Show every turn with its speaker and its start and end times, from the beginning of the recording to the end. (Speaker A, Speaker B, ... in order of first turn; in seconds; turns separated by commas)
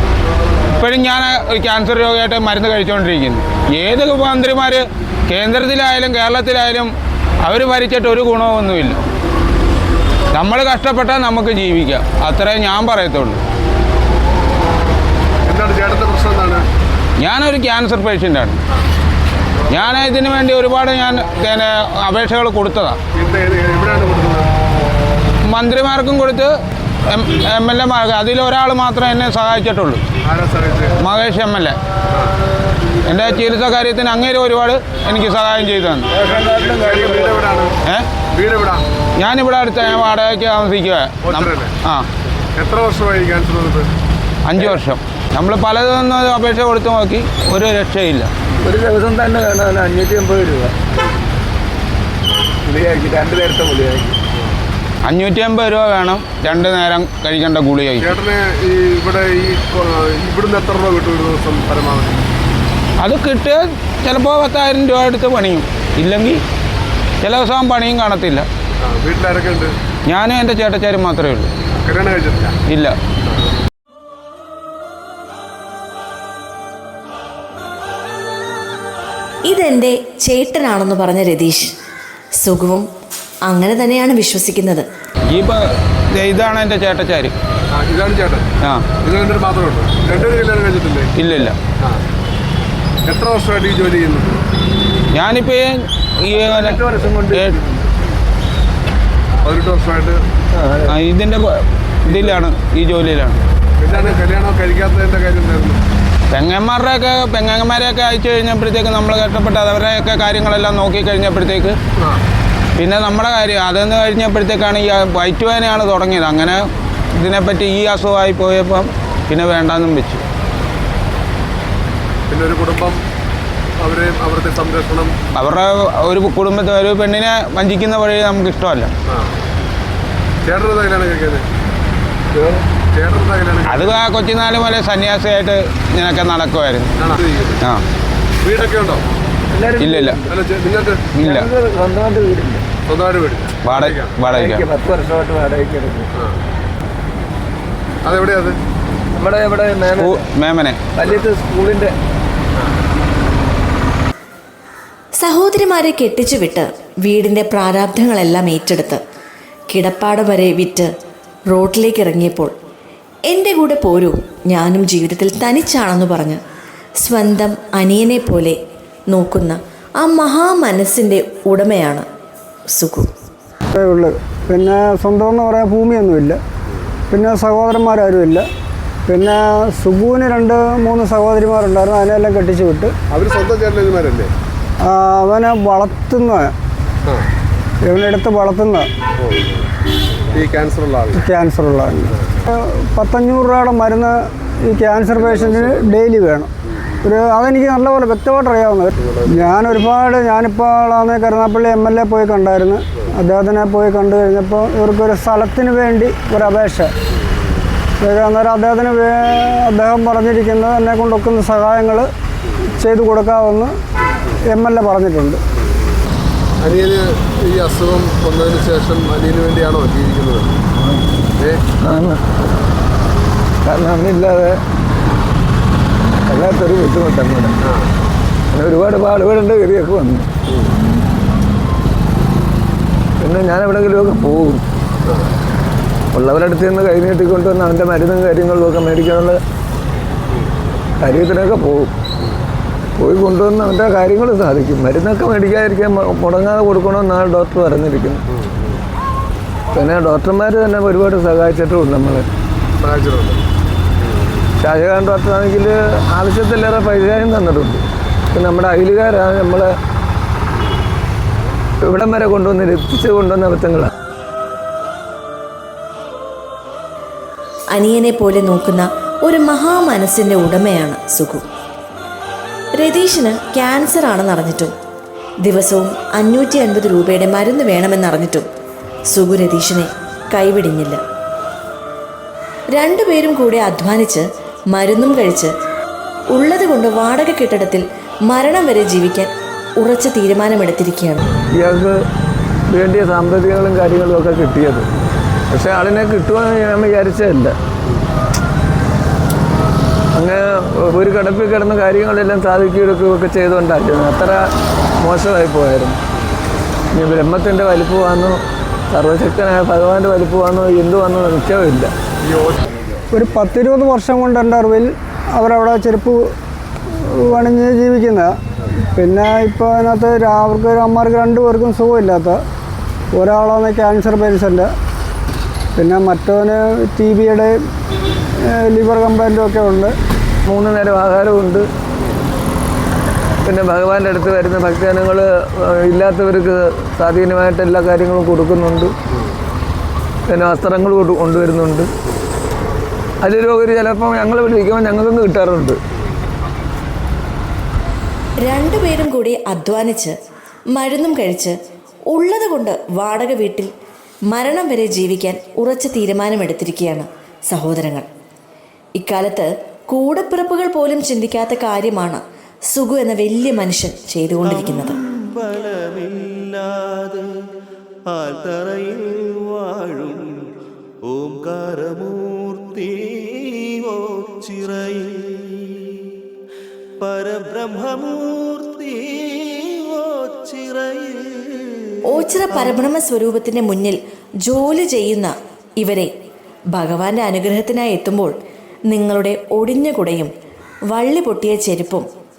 Speaker A: 0.7-6.9, Speaker A: 7.4-9.0, Speaker A: 10.3-13.4, Speaker B: 15.5-16.6, Speaker A: 17.2-18.6, Speaker A: 19.7-23.0, Speaker B: 23.1-24.5, Speaker A: 25.4-26.5, Speaker A: 27.1-30.0, Speaker B: 30.2-30.9, Speaker A: 31.0-31.8, Speaker B: 32.1-32.3, Speaker A: 33.1-36.1, Speaker B: 36.2-38.9, Speaker C: 36.2-37.4, Speaker A: 39.2-42.1, Speaker B: 41.2-41.7, Speaker B: 42.6-43.9, Speaker A: 44.5-48.3, Speaker C: 48.6-50.8, Speaker C: 52.6-54.2, Speaker A: 55.0-58.1, Speaker B: 58.0-62.2, Speaker A: 63.0-66.4, Speaker A: 67.2-68.5, Speaker B: 68.8-69.7, Speaker A: 70.1-71.5, Speaker B: 71.8-72.6, Speaker A: 72.7-73.0, Speaker D: 79.5-81.7, Speaker A: 79.7-81.3, Speaker D: 82.4-82.8, Speaker D: 83.5-84.8, Speaker A: 85.3-87.3, Speaker B: 87.7-91.1, Speaker A: 88.6-88.9, Speaker A: 91.2-91.6, Speaker B: 93.1-94.4, Speaker A: 95.1-97.6, Speaker C: 96.3-97.9, Speaker B: 99.4-100.3, Speaker C: 100.5-101.0, Speaker A: 100.9-103.4, Speaker B: 102.1-102.4, Speaker B: 103.8-105.8, Speaker A: 106.3-111.8, Speaker A: 112.8-120.2, Speaker B: 122.3-123.0, Speaker B: 123.8-125.2, Speaker A: 125.3-128.9, Speaker B: 129.1-129.3, Speaker B: 130.4-131.4, Speaker C: 132.3-132.6, Speaker B: 132.9-133.9, Speaker A: 133.7-136.9, Speaker B: 137.0-137.6, Speaker B: 138.4-139.0, Speaker C: 139.5-140.4, Speaker A: 139.8-140.2, Speaker B: 140.3-141.1, Speaker A: 141.1-141.5, Speaker C: 141.2-142.7, Speaker B: 142.9-144.2, Speaker A: 143.6-144.6, Speaker C: 144.2-146.1, Speaker B: 146.2-146.4, Speaker B: 148.0-148.6, Speaker C: 149.2-150.2, Speaker A: 150.0-150.8, Speaker C: 150.9-151.9, Speaker D: 155.2-159.0, Speaker D: 159.7-160.9, Speaker D: 161.5-162.5, Speaker D: 163.3-166.4, Speaker D: 167.0-168.6, Speaker D: 169.1-172.1, Speaker D: 172.7-173.1, Speaker E: 173.7-176.4, Speaker E: 177.1-178.5, Speaker E: 179.1-182.9, Speaker B: 183.1-184.3, Speaker E: 184.8-186.5, Speaker E: 187.8-188.9, Speaker B: 189.2-189.7, Speaker B: 190.3-191.2, Speaker E: 191.1-196.5, Speaker B: 195.2-195.9, Speaker E: 197.0-206.9, Speaker B: 199.0-199.6, Speaker B: 207.2-207.5, Speaker E: 208.0-212.1, Speaker E: 212.7-213.8, Speaker E: 214.5-215.4, Speaker B: 216.6-220.5, Speaker B: 221.4-221.6, Speaker C: 221.8-222.2, Speaker C: 223.7-224.6, Speaker C: 226.3-227.6, Speaker B: 227.6-227.9, Speaker C: 228.5-230.3, Speaker B: 230.5-230.7, Speaker C: 233.2-234.6, Speaker B: 235.1-235.3, Speaker C: 236.1-239.4, Speaker C: 241.0-241.9, Speaker C: 243.0-248.2, Speaker B: 248.3-248.8, Speaker C: 249.7-252.3, Speaker B: 252.8-253.4, Speaker B: 254.0-254.5, Speaker C: 254.6-259.7, Speaker C: 261.8-263.9, Speaker D: 267.7-271.5, Speaker D: 272.8-274.8, Speaker D: 275.4-278.5, Speaker D: 279.1-281.0, Speaker D: 282.7-285.5, Speaker D: 286.3-291.2, Speaker C: 291.6-291.9, Speaker C: 292.7-294.9, Speaker C: 295.5-297.6, Speaker C: 300.2-304.5, Speaker C: 305.0-306.0, Speaker C: 306.9-308.4, Speaker C: 308.9-311.9, Speaker B: 312.2-312.6, Speaker E: 313.1-316.3, Speaker E: 317.0-318.3, Speaker E: 319.0-322.4, Speaker E: 323.1-324.7, Speaker E: 325.8-327.6, Speaker E: 328.4-329.9, Speaker C: 330.4-331.7, Speaker C: 333.4-338.9, Speaker C: 340.3-341.9, Speaker C: 343.2-345.8, Speaker D: 348.4-350.2, Speaker D: 350.7-351.6, Speaker D: 352.1-353.7, Speaker D: 354.3-358.1, Speaker D: 358.9-364.9, Speaker F: 364.4-367.3, Speaker F: 368.1-370.5, Speaker F: 371.1-376.1, Speaker F: 377.0-382.8, Speaker D: 382.1-386.1, Speaker D: 386.7-388.4, Speaker D: 388.9-390.3, Speaker D: 390.9-392.1